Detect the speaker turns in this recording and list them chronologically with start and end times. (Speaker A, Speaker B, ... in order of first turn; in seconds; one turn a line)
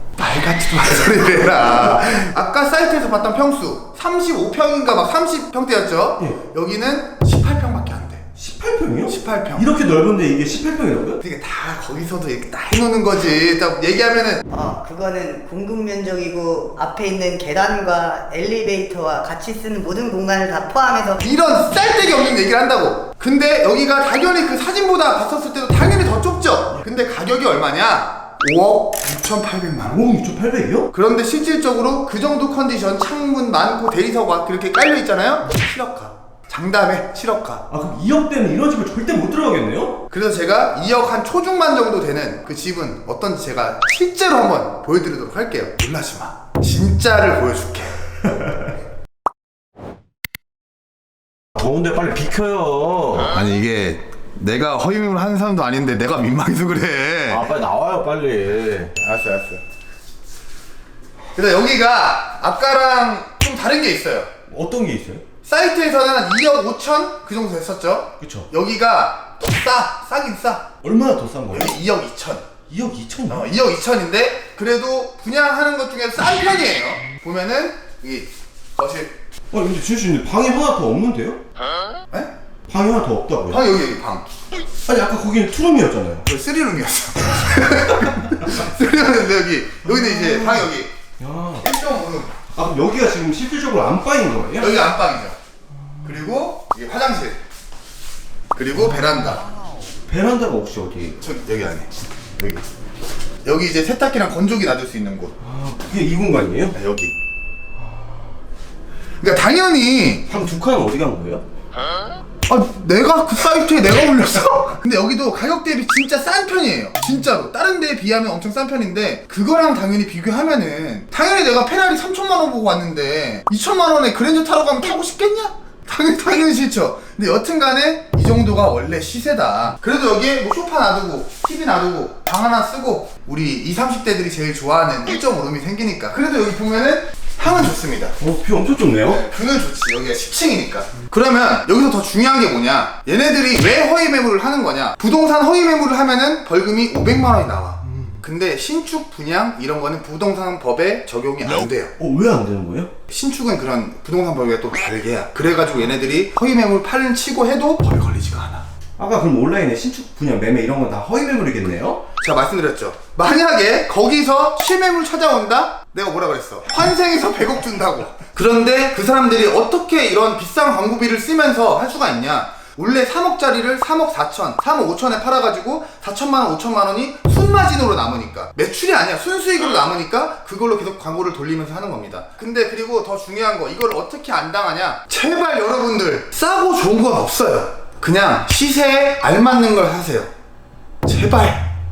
Speaker A: 0.2-8.3
Speaker B: 8.4-11.2
Speaker A: 9.1-9.8
Speaker A: 11.2-14.4
Speaker C: 14.5-21.2
Speaker A: 21.2-30.0
Speaker B: 29.8-30.9
Speaker A: 30.9-37.7
Speaker B: 37.7-40.0
Speaker A: 40.1-48.0
Speaker D: 51.6-53.2
Speaker B: 51.6-53.1
Speaker A: 53.2-57.5
Speaker D: 57.3-58.9
Speaker A: 58.9-59.6
Speaker A: 61.3-64.3
Speaker B: 64.5-65.2
Speaker A: 65.4-70.7
Speaker B: 68.2-68.5
Speaker B: 70.8-71.8
Speaker A: 71.5-72.5
Speaker B: 72.7-73.5
Speaker A: 73.3-79.1
Speaker B: 79.5-81.4
Speaker B: 82.7-83.6
Speaker A: 83.5-84.3
Speaker B: 84.9-86.3
Speaker A: 86.2-90.9
Speaker B: 89.8-91.6
Speaker A: 91.6-92.4
Speaker B: 92.5-94.8
Speaker A: 94.6-95.4
Speaker A: 96.0-97.4
Speaker A: 98.5-99.4
Speaker B: 98.8-99.0
Speaker B: 100.1-101.2
Speaker A: 101.2-102.6
Speaker A: 103.4-105.4
Speaker B: 105.4-106.8
Speaker A: 106.7-107.1
Speaker A: 109.2-110.2
Speaker B: 110.3-111.4
Speaker A: 112.5-138.2
Speaker B: 138.2-139.2
Speaker A: 139.0-151.9
Speaker B: 147.9-148.2
Speaker B: 151.6-152.9
Speaker A: 153.1-158.6
Speaker B: 159.0-162.0
Speaker A: 162.2-190.3
Speaker A: 191.0-191.7